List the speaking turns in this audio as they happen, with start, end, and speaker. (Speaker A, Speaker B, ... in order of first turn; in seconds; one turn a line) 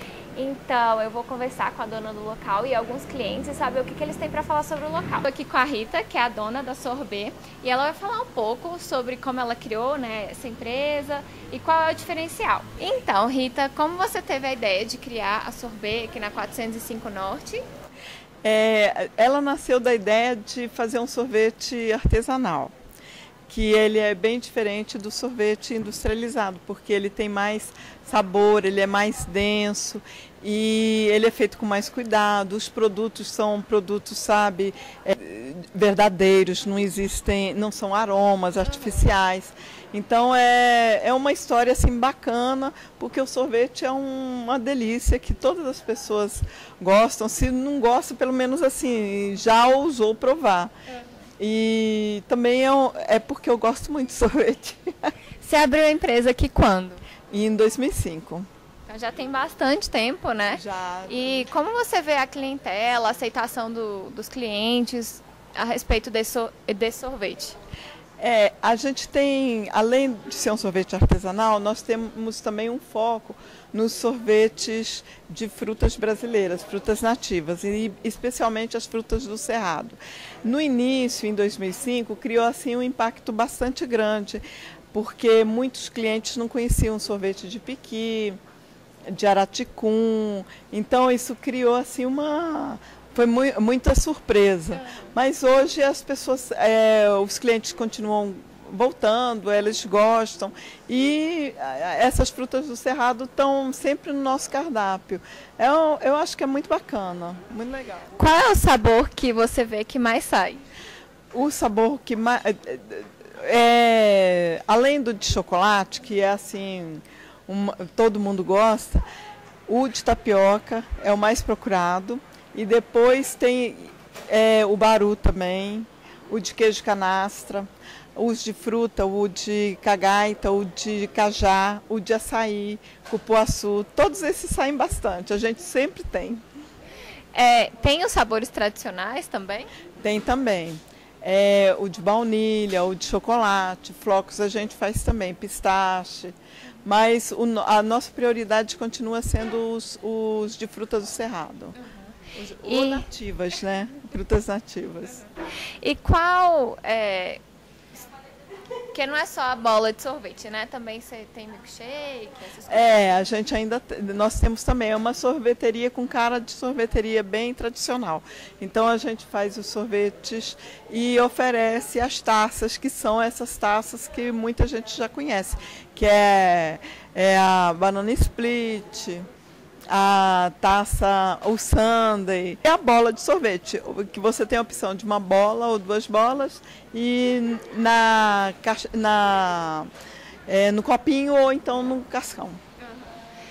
Speaker A: 0.3-17.6
Speaker B: 18.4-22.7
Speaker B: 23.5-50.7
Speaker B: 51.4-55.1
Speaker A: 55.4-57.0
Speaker B: 57.3-58.5
Speaker A: 58.9-67.5
Speaker B: 60.5-61.5
Speaker B: 68.2-88.4
Speaker B: 89.1-108.1
Speaker A: 108.1-110.6
Speaker B: 111.3-119.0
Speaker B: 119.7-136.4
Speaker A: 137.3-139.7
Speaker B: 140.0-151.7
Speaker B: 152.3-155.2
Speaker A: 152.6-153.1
Speaker A: 155.8-157.4
Speaker A: 158.9-163.0
Speaker B: 162.7-179.2
Speaker B: 179.9-189.9
Speaker B: 190.5-192.6